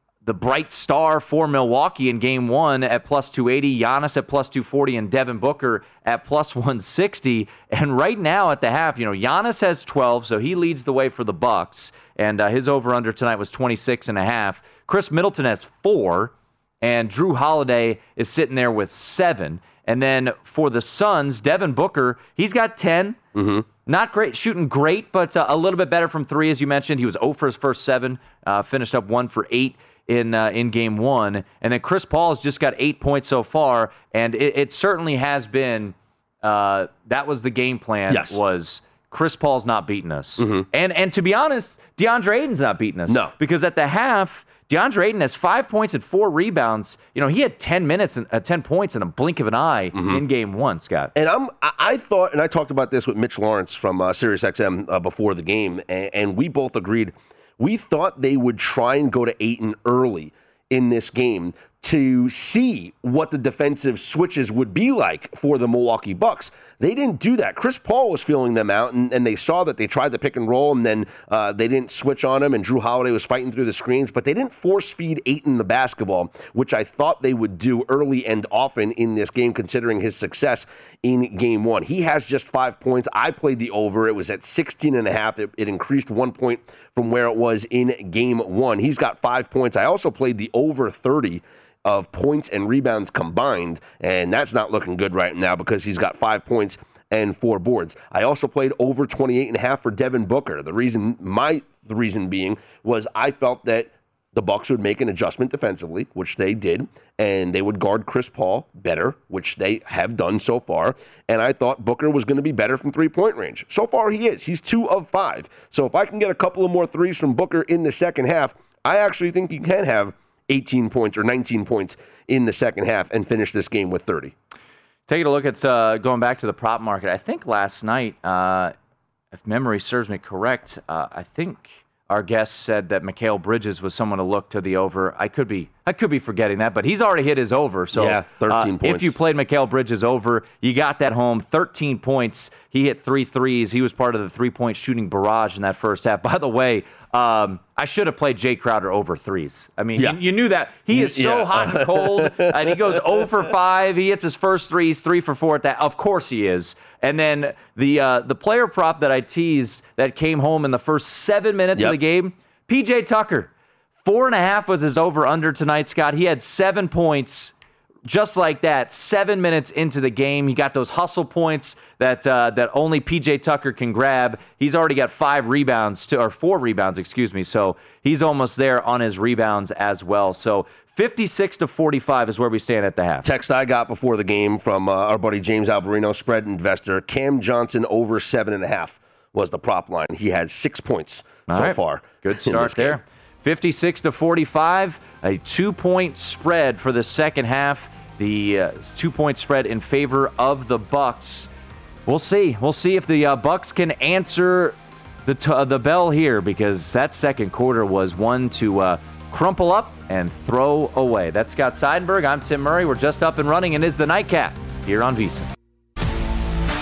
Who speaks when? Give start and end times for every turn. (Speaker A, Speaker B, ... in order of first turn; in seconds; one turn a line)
Speaker A: 0.2-23.2
Speaker B: 23.4-23.6
Speaker A: 23.9-51.1
Speaker B: 38.1-38.4
Speaker B: 40.4-40.6
Speaker B: 43.1-43.3
Speaker B: 49.9-50.2
Speaker B: 51.1-124.3
Speaker A: 125.1-128.7
Speaker A: 129.3-163.5
Speaker B: 137.9-139.1
Speaker B: 150.9-153.2
Speaker A: 164.0-167.5
Speaker A: 168.0-183.3
Speaker B: 183.2-193.0
Speaker A: 191.5-201.5
Speaker A: 202.1-215.5